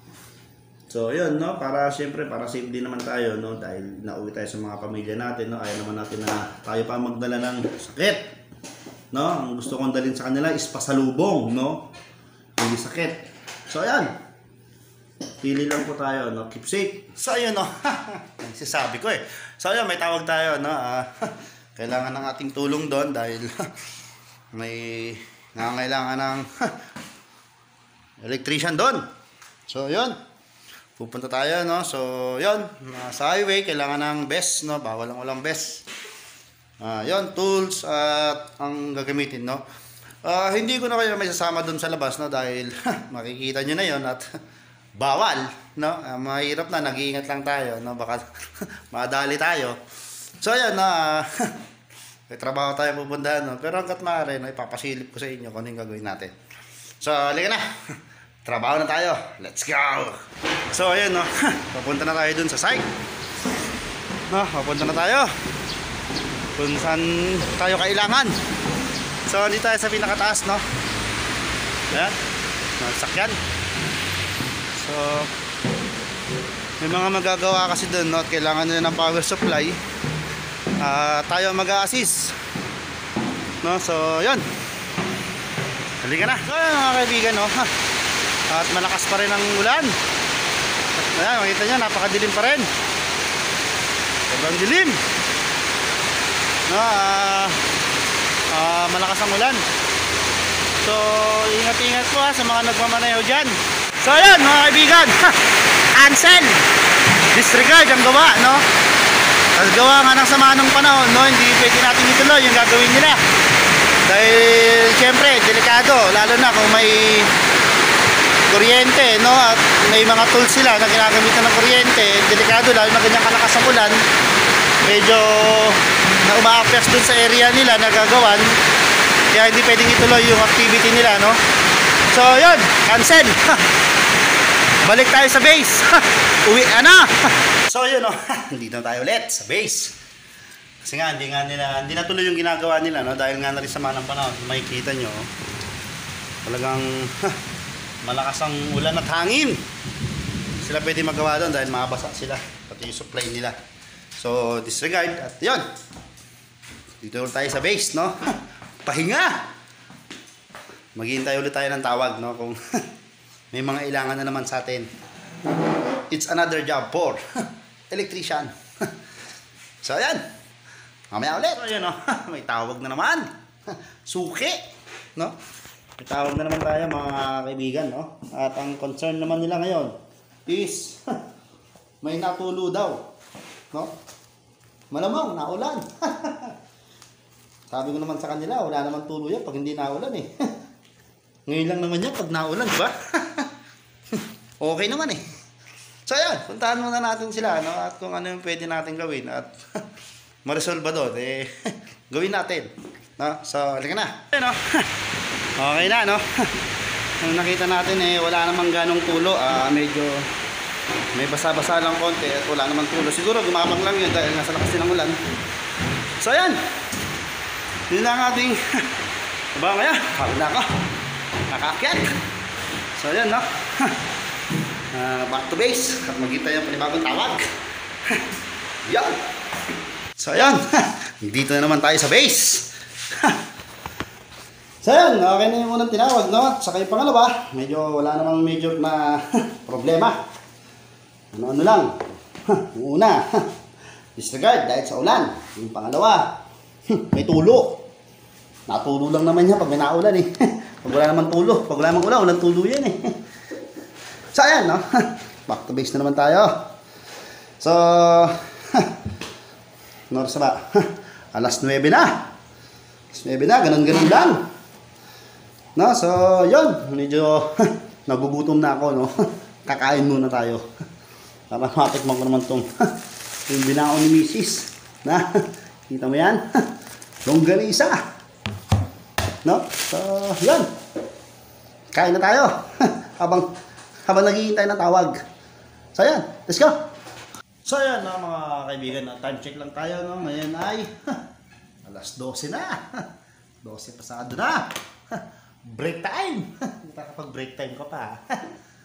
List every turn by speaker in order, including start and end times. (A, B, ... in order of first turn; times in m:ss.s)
0:00.9-0:08.3 A
0:09.1-0:11.9 A
0:12.6-0:14.1 A
0:15.4-0:23.6 A
0:24.5-0:26.7 A
0:28.2-0:29.0 A
0:29.7-0:30.2 A
0:31.0-0:35.8 A
0:36.8-0:39.6 A
0:40.2-0:44.2 A
0:45.0-0:49.8 A
0:50.4-0:51.5 A
0:52.3-0:56.3 A
0:57.0-1:00.2 A
1:00.7-1:02.9 A
1:04.3-1:05.3 A
1:06.6-1:08.4 A
1:09.3-1:10.6 A
1:12.8-1:13.4 A
1:14.8-1:15.3 A
1:16.8-1:19.8 A
1:20.8-1:22.4 A
1:23.6-1:24.4 A
1:26.0-1:27.7 A
1:28.5-1:29.9 A
1:31.0-1:32.7 A
1:34.3-1:35.0 A
1:36.7-1:37.6 A
1:38.5-1:39.6 A
1:40.8-1:45.4 A
1:45.9-1:46.6 A
1:47.3-1:48.6 A
1:49.6-1:53.2 A
1:54.0-1:57.3 A
1:58.5-2:04.0 A
2:04.8-2:08.5 A
2:09.3-2:11.4 A
2:12.1-2:13.6 A
2:14.8-2:19.9 A
2:20.8-2:25.3 A
2:26.4-2:27.4 A
2:28.0-2:29.6 A
2:30.6-2:33.6 A
2:34.2-2:35.6 A
2:37.0-2:39.5 A
2:40.9-2:42.6 A
2:43.5-2:44.9 A
2:46.1-2:47.2 A
2:47.9-2:48.9 A
2:49.8-2:50.2 A
2:51.1-2:54.6 A
2:56.0-3:01.2 A
3:02.0-3:03.0 A
3:04.9-3:06.5 A
3:07.7-3:10.5 A
3:11.5-3:13.5 A
3:14.2-3:15.2 A
3:16.0-3:19.6 A
3:20.4-3:24.8 A
3:25.6-3:26.5 A
3:27.2-3:30.3 A
3:31.1-3:35.2 A
3:36.2-3:36.6 A
3:37.9-3:38.8 A
3:39.6-3:40.7 A
3:41.5-3:42.2 A
3:43.0-3:44.0 A
3:44.9-3:47.4 A
3:48.8-3:49.2 A
3:50.2-3:53.4 A
3:54.8-4:00.2 A
4:01.3-4:03.5 A
4:04.2-4:06.4 A
4:06.9-4:07.8 A
4:08.7-4:13.2 A
4:14.3-4:16.6 A
4:17.6-4:18.9 A
4:20.1-4:22.3 A
4:23.1-4:24.4 A
4:25.8-4:30.6 A
4:31.5-4:32.9 A
4:33.5-4:36.6 A
4:37.2-4:38.0 A
4:39.4-4:40.7 A
4:41.9-4:43.5 A
4:44.0-4:45.2 A
4:45.9-4:46.8 A
4:47.6-4:51.2 A
4:51.8-4:53.0 A
4:53.6-4:58.4 A